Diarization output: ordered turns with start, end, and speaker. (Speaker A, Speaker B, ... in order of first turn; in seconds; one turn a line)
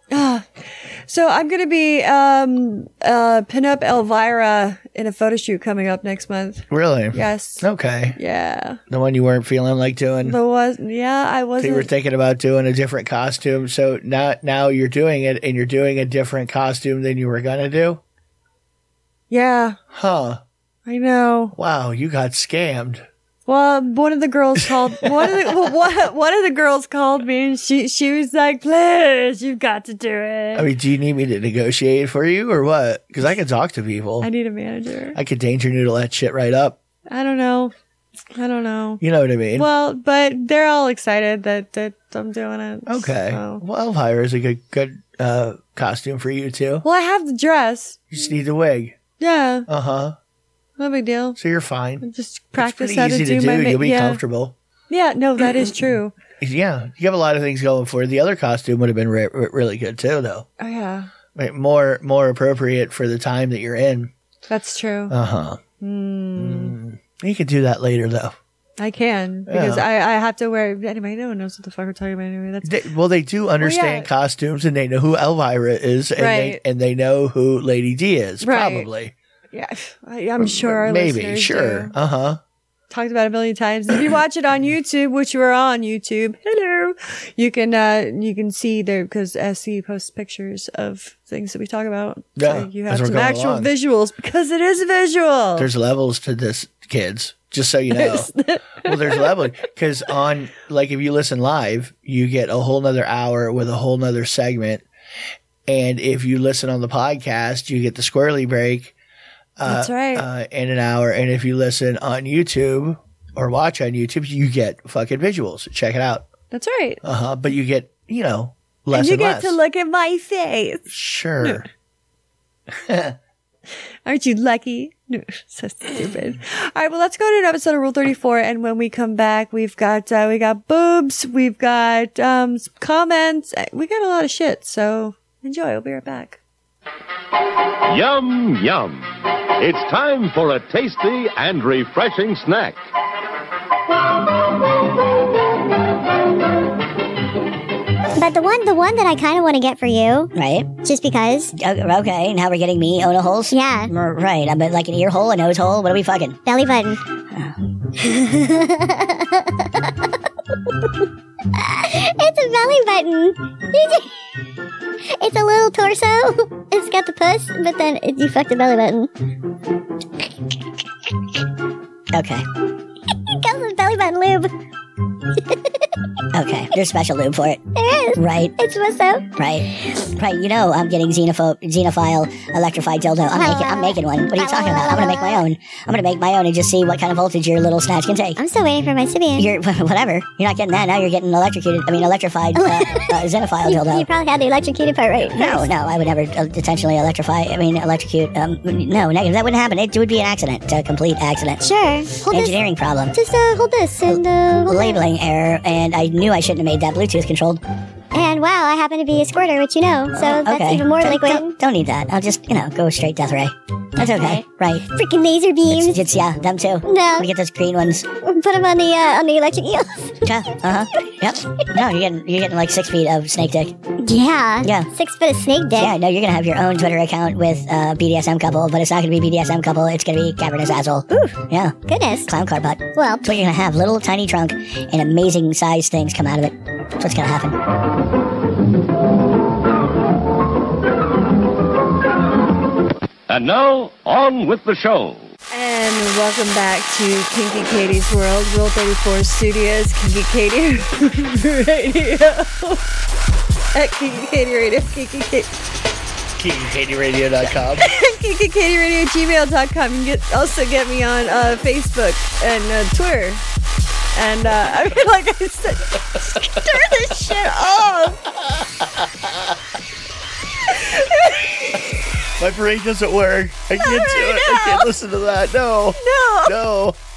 Speaker A: 0.1-8.8
Speaker B: 6.7-8.2
Speaker B: 8.9-10.4
Speaker A: 10.2-11.9
Speaker B: 11.6-18.0
Speaker A: 19.3-19.8
Speaker B: 19.9-20.4
Speaker A: 20.9-21.5
Speaker B: 21.5-23.1
Speaker A: 23.4-30.7
Speaker B: 25.0-25.3
Speaker B: 30.5-34.3
Speaker A: 34.2-35.2
Speaker B: 35.1-36.8
Speaker A: 37.1-37.7
Speaker A: 38.3-39.0
Speaker B: 39.0-39.7
Speaker A: 39.5-43.6
Speaker B: 42.9-46.8
Speaker A: 46.8-48.1
Speaker B: 48.1-49.0
Speaker A: 49.2-49.7
Speaker B: 49.7-50.1
Speaker A: 50.8-51.4
Speaker B: 51.4-54.5
Speaker A: 52.0-54.2
Speaker A: 54.9-56.1
Speaker B: 56.4-60.5
Speaker A: 60.6-61.1
Speaker B: 61.3-64.1
Speaker A: 64.5-65.1
Speaker B: 65.1-65.6
Speaker A: 65.8-66.8
Speaker B: 66.3-68.4
Speaker A: 68.8-72.7
Speaker B: 69.5-69.8
Speaker B: 72.6-79.1
Speaker A: 73.6-74.1
Speaker A: 76.2-76.6
Speaker A: 78.4-78.9
Speaker A: 79.5-81.9
Speaker B: 80.4-82.4
Speaker A: 82.9-95.7
Speaker B: 92.4-93.7
Speaker B: 95.6-104.8
Speaker A: 97.9-99.5
Speaker B: 105.7-108.9
Speaker B: 109.6-116.2
Speaker A: 109.6-110.2
Speaker A: 116.5-117.0
Speaker B: 117.0-119.6
Speaker A: 118.9-120.9
Speaker B: 120.9-121.7
Speaker B: 122.7-123.2
Speaker A: 124.0-136.4
Speaker C: 137.9-142.8
Speaker D: 148.2-151.5
Speaker E: 150.3-150.7
Speaker E: 151.5-156.4
Speaker D: 153.5-153.9
Speaker D: 156.4-157.0
Speaker D: 158.0-159.8
Speaker D: 161.5-164.1
Speaker D: 165.2-169.1
Speaker E: 172.1-172.4
Speaker D: 173.3-174.5
Speaker D: 175.4-175.8
Speaker E: 176.3-177.6
Speaker D: 177.7-179.4
Speaker E: 178.2-178.5
Speaker E: 179.4-188.4
Speaker D: 183.3-185.4
Speaker D: 188.3-189.5
Speaker E: 189.3-194.1
Speaker D: 192.5-195.7
Speaker E: 195.3-201.6
Speaker D: 201.6-202.6
Speaker E: 202.2-203.1
Speaker D: 203.1-205.0
Speaker E: 204.1-207.6
Speaker D: 208.1-211.6
Speaker E: 210.1-214.8
Speaker D: 214.0-216.0
Speaker E: 215.7-218.1
Speaker D: 216.8-217.3
Speaker D: 218.2-221.8
Speaker E: 220.2-223.7
Speaker D: 224.0-225.9
Speaker E: 224.6-224.9
Speaker E: 225.8-237.6
Speaker D: 231.1-232.3
Speaker D: 232.9-233.3
Speaker C: 243.3-245.3
Speaker A: 245.5-252.8
Speaker A: 253.7-255.6
Speaker B: 256.4-257.9
Speaker A: 257.4-263.4
Speaker A: 264.1-268.2
Speaker B: 268.5-269.1
Speaker A: 270.7-271.9
Speaker B: 272.4-277.0
Speaker A: 273.8-274.9
Speaker A: 276.0-276.5